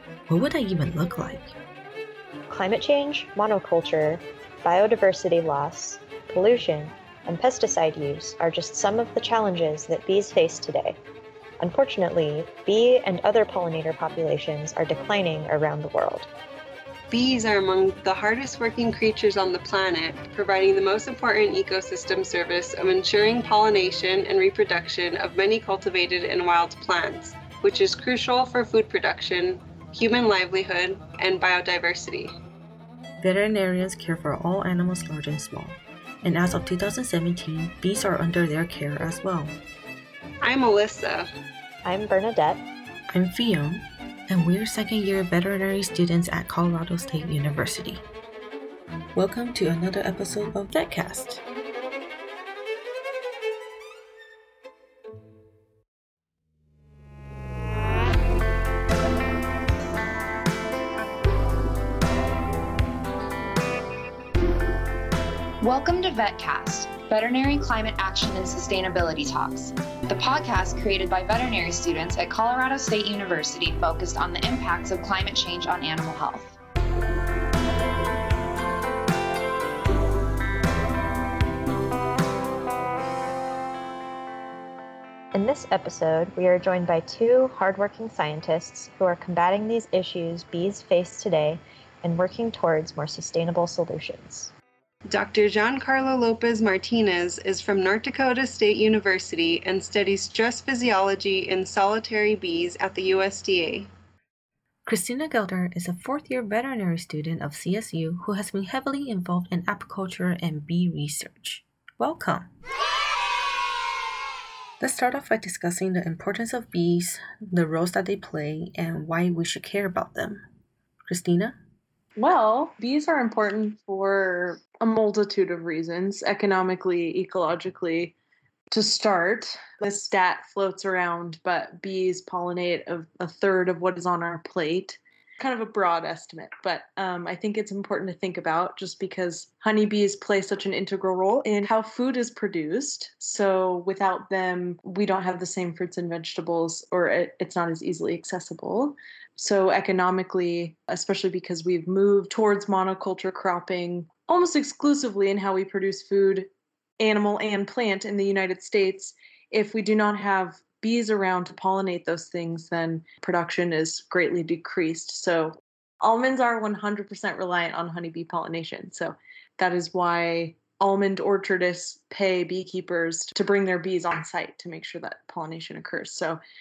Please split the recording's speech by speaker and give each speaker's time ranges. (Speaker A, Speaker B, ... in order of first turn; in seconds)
Speaker A: 0.3-1.5, 33.2-39.5, 43.1-48.0, 49.1-51.4, 104.8-112.5, 114.8-120.4, 121.1-121.6
Speaker B: 2.5-11.0, 11.6-16.3, 41.8-42.6, 85.3-94.5
Speaker C: 17.1-32.3, 40.4-41.3, 95.1-103.9
Speaker D: 65.6-76.5
Speaker E: 122.2-128.1, 128.7-176.4